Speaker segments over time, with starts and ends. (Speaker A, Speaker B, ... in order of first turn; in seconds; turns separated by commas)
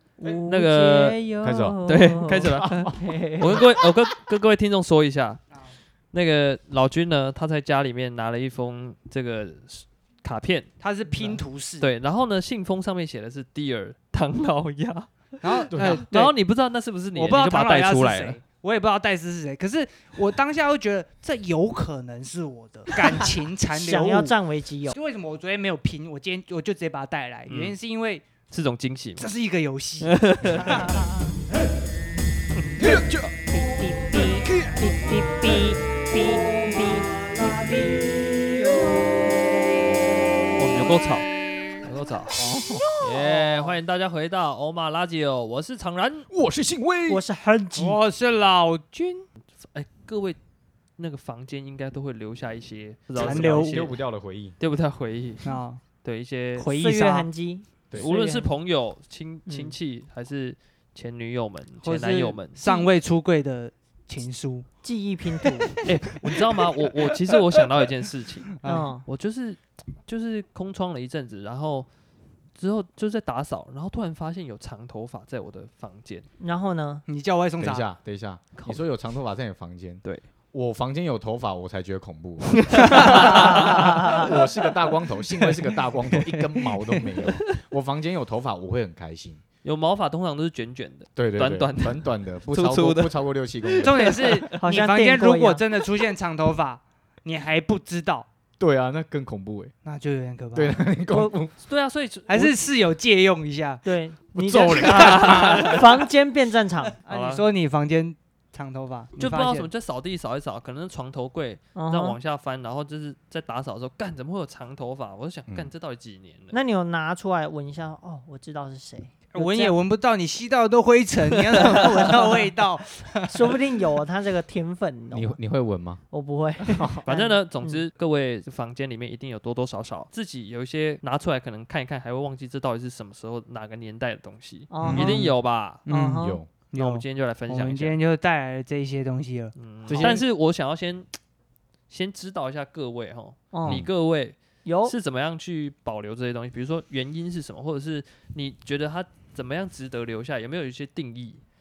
Speaker A: 0.2-3.7, Speaker B: 0.5-1.2, Speaker C: 1.4-1.8, Speaker B: 1.9-5.4, Speaker B: 6.1-10.7, Speaker D: 10.8-11.9, Speaker B: 11.2-18.4, Speaker D: 15.4-16.3, Speaker C: 15.7-16.0, Speaker D: 17.1-24.4, Speaker A: 23.7-24.9, Speaker D: 24.9-28.2, Speaker B: 27.5-27.8, Speaker B: 28.5-29.3, Speaker D: 29.2-31.1, Speaker B: 30.0-30.9, Speaker A: 30.7-31.1, Speaker C: 32.8-33.4, Speaker A: 33.5-38.1, Speaker C: 34.5-34.9, Speaker D: 37.5-37.9, Speaker B: 40.6-41.3, Speaker B: 41.8-42.4, Speaker C: 42.3-43.0, Speaker B: 43.0-46.3, Speaker A: 43.3-43.8, Speaker C: 46.3-47.2, Speaker A: 47.1-48.0, Speaker D: 47.8-49.3, Speaker B: 49.6-50.4, Speaker B: 51.0-54.0, Speaker C: 53.1-54.6, Speaker D: 53.2-53.9, Speaker B: 54.6-55.5, Speaker D: 55.4-55.8, Speaker B: 56.0-56.7, Speaker D: 56.6-57.3, Speaker A: 56.7-58.5, Speaker B: 58.0-62.6, Speaker A: 59.5-59.8, Speaker A: 61.8-62.9, Speaker D: 62.5-64.7, Speaker A: 64.8-65.7, Speaker D: 65.4-67.4, Speaker B: 65.8-71.9, Speaker D: 68.6-68.9, Speaker A: 68.6-69.1, Speaker B: 72.6-76.3, Speaker A: 76.4-77.0, Speaker D: 77.1-77.9, Speaker C: 77.6-89.4, Speaker B: 82.7-83.8, Speaker D: 82.9-83.2, Speaker A: 83.3-84.2, Speaker D: 85.3-87.2, Speaker B: 89.6-94.6, Speaker C: 91.2-94.2, Speaker D: 93.8-98.3, Speaker A: 94.5-95.6, Speaker C: 98.6-99.7, Speaker D: 99.8-100.8, Speaker C: 100.5-101.5, Speaker B: 101.6-102.5, Speaker D: 102.3-103.8, Speaker A: 103.8-107.0, Speaker C: 104.3-105.9, Speaker B: 104.8-105.9, Speaker D: 107.1-109.7, Speaker B: 107.1-107.5, Speaker B: 109.2-116.6, Speaker A: 111.8-112.2, Speaker A: 116.5-119.8, Speaker D: 119.3-123.6, Speaker A: 123.3-125.4, Speaker C: 125.1-126.0, Speaker A: 126.1-127.8, Speaker C: 126.6-127.0, Speaker B: 127.1-135.8, Speaker A: 134.7-135.3, Speaker C: 134.8-135.2, Speaker D: 134.9-135.3, Speaker D: 135.8-140.2, Speaker A: 135.9-136.4, Speaker C: 136.2-136.5, Speaker B: 136.7-138.0, Speaker B: 139.6-141.1, Speaker C: 139.9-140.2, Speaker B: 141.9-151.4, Speaker A: 143.5-143.9, Speaker A: 144.6-144.9